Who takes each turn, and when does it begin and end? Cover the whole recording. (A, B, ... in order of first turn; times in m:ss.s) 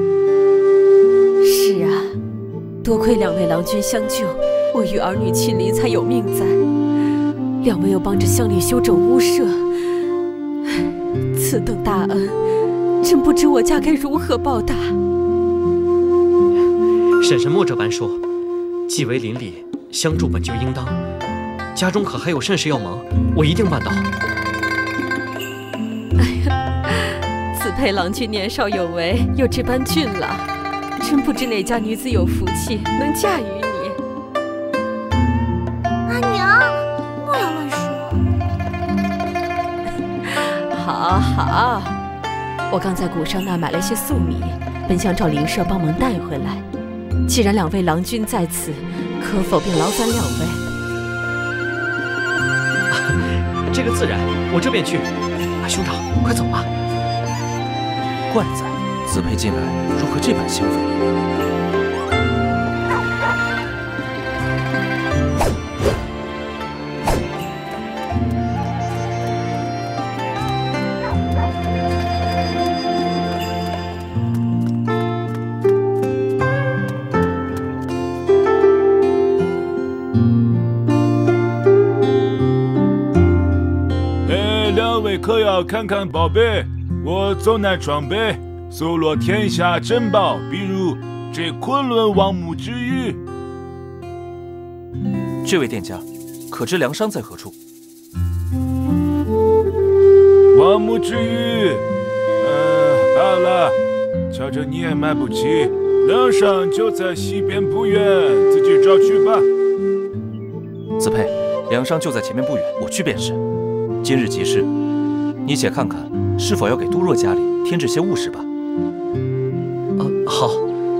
0:01.4-0:02.2 A
0:02.8-0:06.6 A
0:07.6-0:10.0 A
0:10.6-0:12.4 A
0:13.0-0:15.0 A
0:17.2-0:18.2 B
0:18.9-0:21.0 B
0:21.7-0:24.1 B
0:26.2-0:30.5 A
0:31.0-0:34.0 A
0:36.0-0:38.2 C
0:40.2-0:42.0 A
0:42.7-0:46.6 A
0:47.3-0:50.6 A
0:52.9-0:56.7 B
0:58.3-1:00.9 D
1:24.2-1:33.2 E
1:35.4-1:37.5 D
1:40.5-1:41.8 E
1:42.4-1:43.8 E
1:44.3-1:49.5 E
1:51.0-1:53.4 D
1:54.0-1:54.7 D
1:55.4-1:58.5 D
2:00.0-2:00.7 B